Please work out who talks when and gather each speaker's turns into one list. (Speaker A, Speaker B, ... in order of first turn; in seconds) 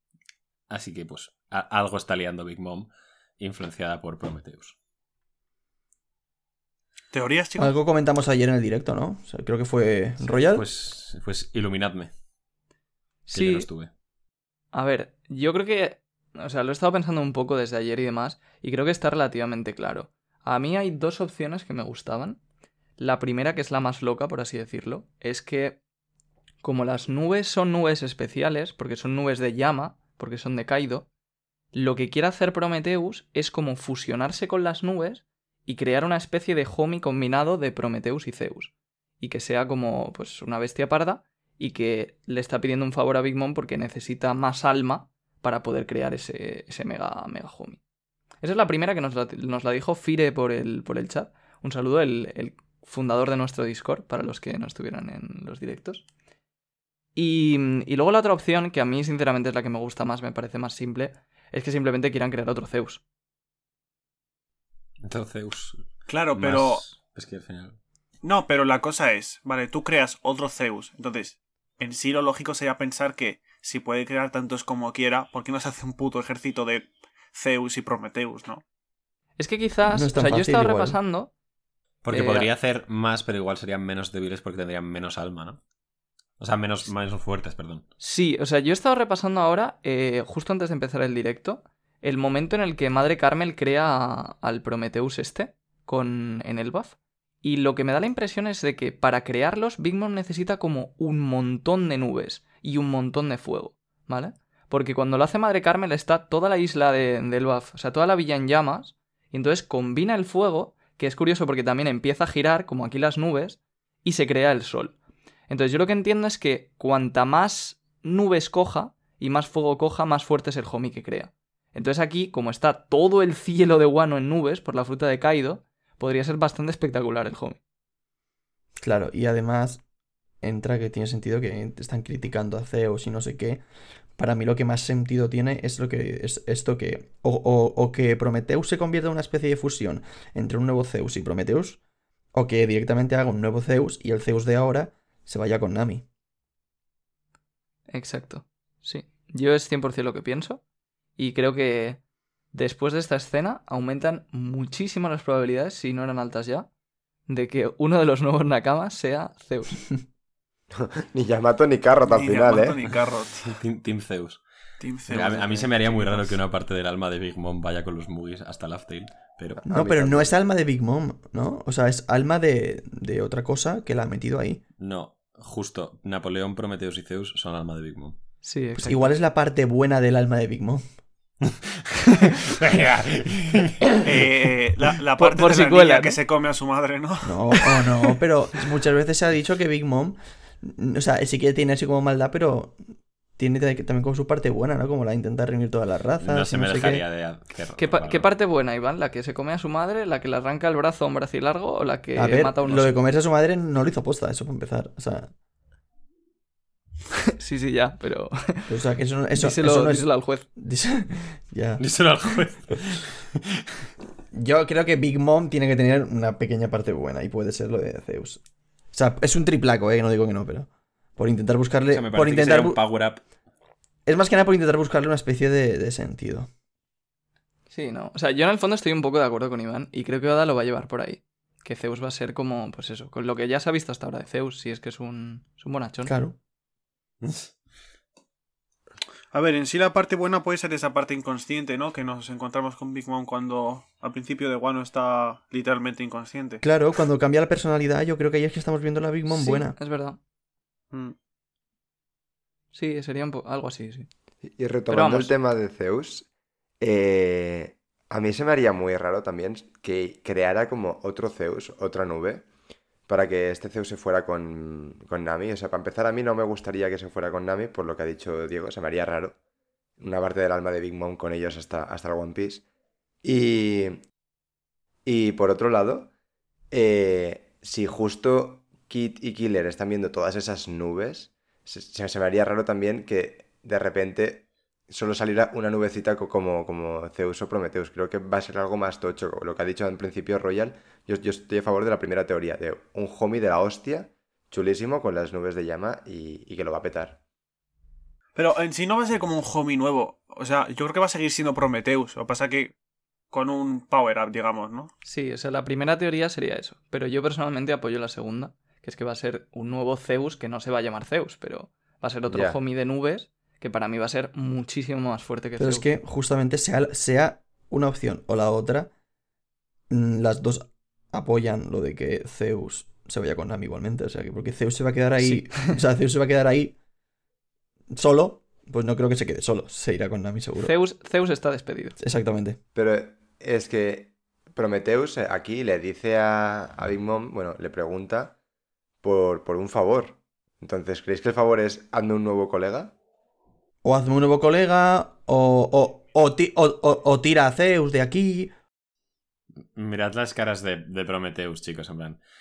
Speaker A: 0.7-4.8, 10.5-12.1, 13.3-13.9, 65.0-67.8, 82.0-85.6, 86.4-87.9, 163.4-164.4, 165.1-169.6, 174.8-178.2, 182.5-183.9, 196.2-198.3, 211.8-213.2, 221.9-223.2, 237.2-237.5, 349.7-352.2
Speaker B: 7.1-7.7, 66.1-66.8, 68.2-78.6, 162.0-163.6, 164.8-166.4, 184.0-187.9, 239.3-246.6, 298.3-302.7, 303.3-304.9
Speaker C: 7.6-10.6, 79.9-81.0, 128.8-129.8, 130.4-133.6, 134.2-141.8, 142.3-146.1, 169.7-174.6, 178.8-180.8, 187.2-192.8, 193.3-197.0, 202.2-205.3, 208.7-211.8, 214.3-218.4, 218.9-222.8, 224.1-226.5, 236.0-236.4, 246.6-249.7, 315.6-318.9, 319.9-326.8, 327.9-330.7, 332.0-332.6, 343.8-348.5
Speaker D: 13.3-13.7, 14.7-22.4, 23.0-25.8, 26.6-31.1, 31.7-47.8, 48.4-56.0, 57.1-63.0, 79.4-81.3, 82.1-82.5, 88.0-114.9, 115.5-127.6, 147.9-150.6, 151.2-152.0, 152.5-156.7, 157.3-159.8, 178.4-179.1, 185.2-186.2, 197.8-203.0, 207.4-208.7, 209.3-210.4, 227.7-236.1, 249.3-250.2, 252.7-254.1, 254.9-255.3, 305.0-315.9, 325.2-325.6, 330.6-331.9
Speaker E: 161.0-162.8, 169.7-170.3, 254.5-256.2, 256.8-262.4, 263.1-269.4, 270.0-272.6, 273.2-274.0, 275.1-276.1, 276.7-297.2, 312.3-312.6, 332.7-338.3, 339.0-342.9